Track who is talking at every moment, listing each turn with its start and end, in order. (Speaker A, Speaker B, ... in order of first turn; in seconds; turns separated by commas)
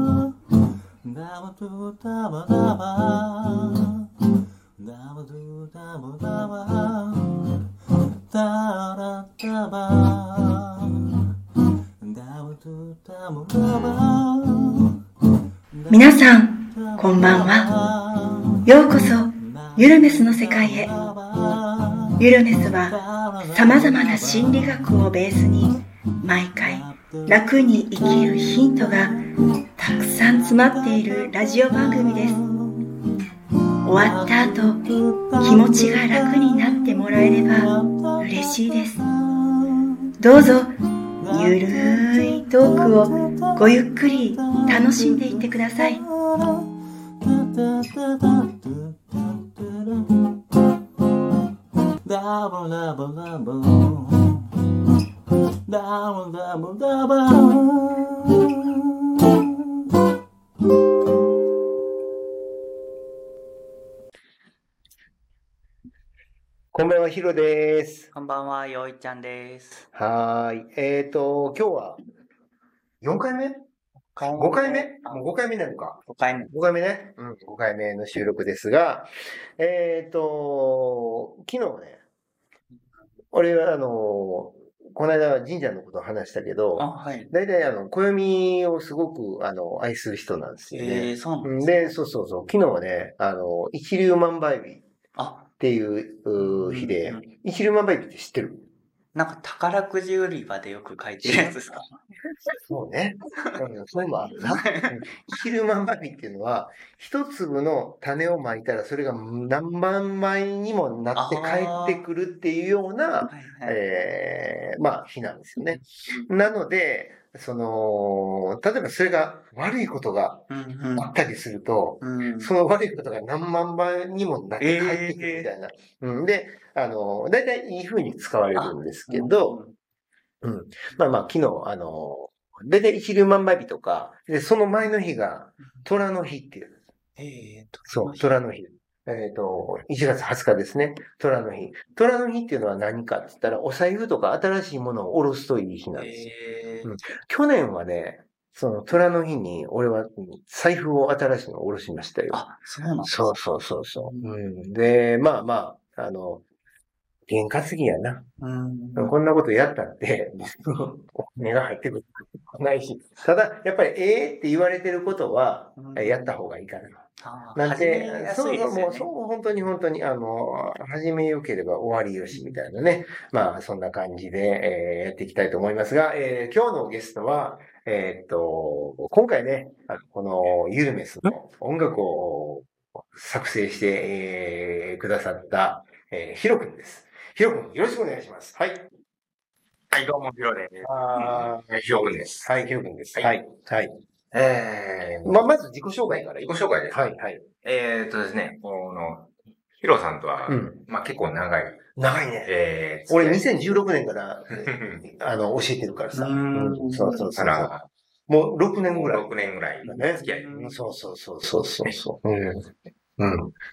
Speaker A: 1.1-3.1, Speaker A: 4.9-7.0, Speaker A: 8.3-9.9, Speaker A: 12.1-13.6, Speaker B: 15.9-17.7, Speaker B: 18.6-21.0, Speaker B: 22.2-29.2, Speaker B: 29.8-32.4, Speaker B: 33.8-39.0, Speaker B: 40.2-46.0, Speaker A: 48.0-49.9, Speaker A: 52.0-54.2, Speaker A: 55.7-57.4, Speaker C: 66.7-68.1, Speaker D: 68.1-69.8, Speaker C: 69.9-72.0, Speaker C: 73.0-73.6, Speaker D: 74.2-75.1, Speaker C: 74.3-82.0, Speaker D: 76.1-76.5, Speaker C: 83.3-94.8, Speaker D: 86.9-87.2, Speaker D: 90.7-91.5, Speaker D: 95.2-95.4, Speaker C: 95.5-98.7, Speaker D: 96.6-97.2, Speaker D: 99.2-101.9, Speaker C: 101.2-101.8, Speaker C: 102.6-129.6, Speaker D: 104.3-104.9, Speaker D: 111.1-111.9, Speaker D: 113.3-113.7, Speaker D: 120.5-121.0, Speaker D: 122.1-122.4, Speaker D: 124.6-125.4, Speaker D: 128.6-129.3, Speaker C: 130.4-136.7, Speaker D: 137.2-137.8, Speaker C: 137.8-146.3, Speaker B: 138.0-138.4, Speaker C: 146.8-152.4, Speaker D: 152.3-153.1, Speaker C: 153.0-156.4, Speaker C: 157.3-158.3, Speaker D: 158.4-159.0, Speaker C: 158.9-188.9, Speaker D: 165.8-166.3, Speaker D: 167.2-169.0, Speaker E: 189.9-192.5, Speaker C: 190.8-193.9, Speaker E: 194.3-195.4, Speaker C: 195.2-197.4, Speaker E: 196.3-197.0, Speaker E: 197.6-201.8, Speaker C: 200.4-200.8, Speaker C: 202.0-202.5, Speaker E: 202.4-203.6, Speaker C: 203.1-207.7, Speaker E: 204.5-205.0, Speaker D: 206.2-206.9, Speaker E: 207.1-207.9, Speaker C: 208.3-212.7, Speaker E: 208.7-210.5, Speaker E: 211.8-212.7, Speaker C: 213.2-213.5